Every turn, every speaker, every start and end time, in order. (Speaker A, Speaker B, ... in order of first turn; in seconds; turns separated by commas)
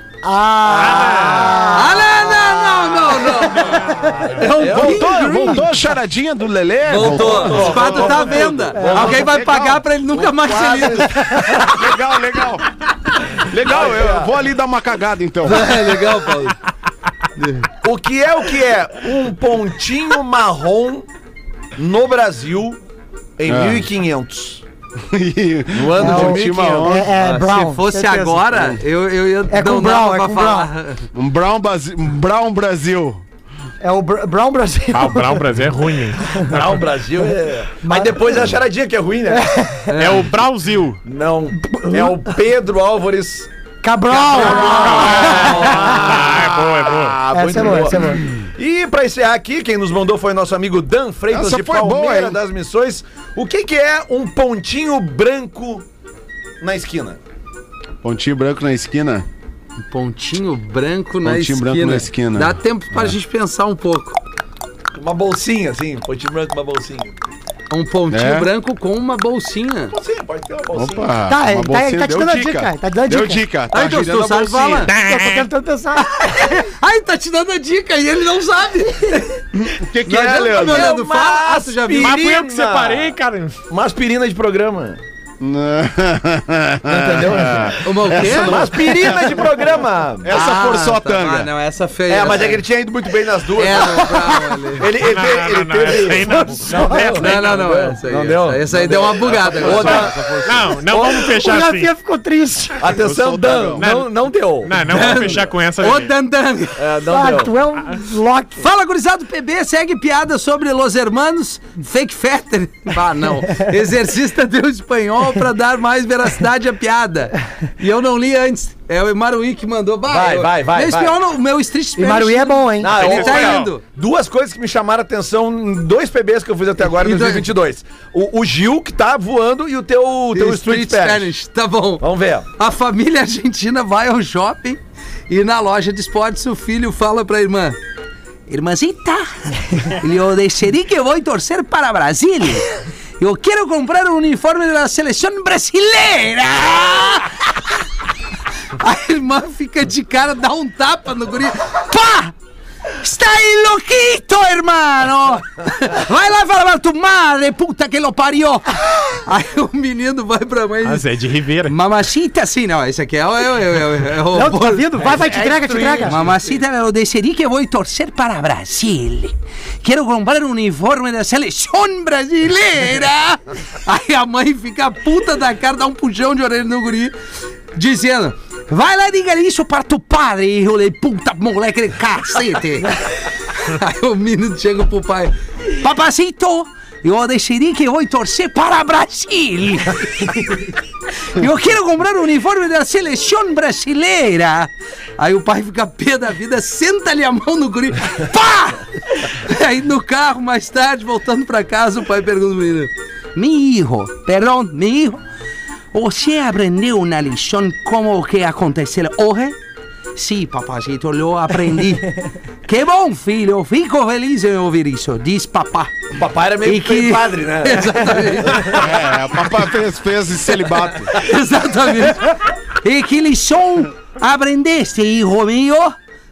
Speaker A: 0.2-4.5, Speaker B: 0.7-1.8, Speaker C: 1.7-5.7, Speaker D: 4.5-5.0, Speaker E: 4.5-12.7, Speaker A: 5.2-5.6, Speaker C: 6.9-11.7, Speaker D: 6.9-9.3, Speaker A: 8.8-9.0, Speaker D: 10.4-11.2, Speaker E: 13.3-16.2, Speaker D: 13.6-14.4, Speaker C: 15.4-16.6, Speaker C: 17.4-17.7, Speaker D: 17.8-21.1, Speaker D: 21.8-22.8, Speaker D: 23.4-24.6, Speaker E: 23.5-23.9, Speaker E: 25.1-27.1, Speaker D: 25.7-26.9, Speaker A: 26.0-28.6, Speaker C: 27.1-31.1, Speaker A: 29.5-30.7, Speaker E: 31.1-33.2, Speaker A: 33.8-35.5, Speaker B: 34.9-36.8, Speaker D: 36.5-39.5, Speaker A: 37.8-38.6, Speaker A: 39.3-40.0, Speaker C: 39.9-40.3, Speaker B: 39.9-41.0, Speaker D: 41.1-43.5, Speaker A: 41.6-42.2, Speaker A: 43.8-46.1, Speaker D: 44.1-55.9, Speaker B: 44.1-47.2, Speaker E: 44.3-45.5, Speaker A: 47.3-48.2, Speaker E: 51.3-52.4, Speaker D: 56.6-57.2, Speaker E: 58.0-59.3, Speaker C: 59.8-64.2, Speaker E: 61.2-63.2, Speaker D: 64.9-67.3, Speaker C: 67.7-70.0, Speaker E: 68.1-68.5, Speaker D: 69.9-71.2, Speaker E: 70.7-74.9, Speaker A: 71.3-73.4, Speaker C: 73.7-74.9, Speaker B: 74.9-75.5, Speaker A: 75.0-76.6, Speaker C: 76.0-79.4, Speaker E: 79.7-81.0, Speaker C: 80.0-82.2, Speaker D: 80.3-83.1, Speaker B: 82.0-83.6, Speaker D: 83.7-85.0, Speaker E: 85.4-91.5, Speaker D: 86.9-90.3, Speaker C: 87.8-88.7, Speaker C: 90.3-92.6, Speaker D: 92.1-94.1, Speaker C: 93.6-94.9, Speaker A: 94.1-94.6, Speaker D: 94.8-101.3, Speaker B: 95.0-97.9, Speaker A: 96.2-97.2, Speaker C: 97.2-100.1, Speaker E: 99.2-100.8, Speaker B: 99.6-101.9, Speaker A: 101.2-102.9, Speaker D: 102.8-105.4, Speaker E: 103.0-103.9, Speaker B: 103.7-106.1, Speaker C: 104.9-106.8, Speaker D: 106.8-107.5, Speaker A: 107.1-108.7, Speaker C: 108.6-123.8, Speaker D: 120.1-121.2, Speaker A: 122.0-123.0, Speaker D: 122.8-131.3, Speaker B: 122.9-123.7, Speaker C: 126.9-127.5, Speaker C: 130.3-132.1, Speaker D: 132.0-132.4, Speaker C: 132.6-137.8, Speaker C: 138.5-147.6, Speaker C: 148.8-152.3, Speaker C: 153.0-161.1, Speaker B: 160.8-161.8, Speaker C: 161.7-164.9, Speaker A: 164.3-166.2, Speaker D: 165.0-166.3, Speaker C: 166.0-177.1, Speaker C: 177.7-190.4, Speaker C: 191.3-205.2, Speaker C: 205.9-209.6, Speaker C: 210.2-215.9, Speaker D: 216.2-218.9, Speaker C: 216.6-218.8, Speaker E: 218.7-221.2, Speaker C: 220.9-226.0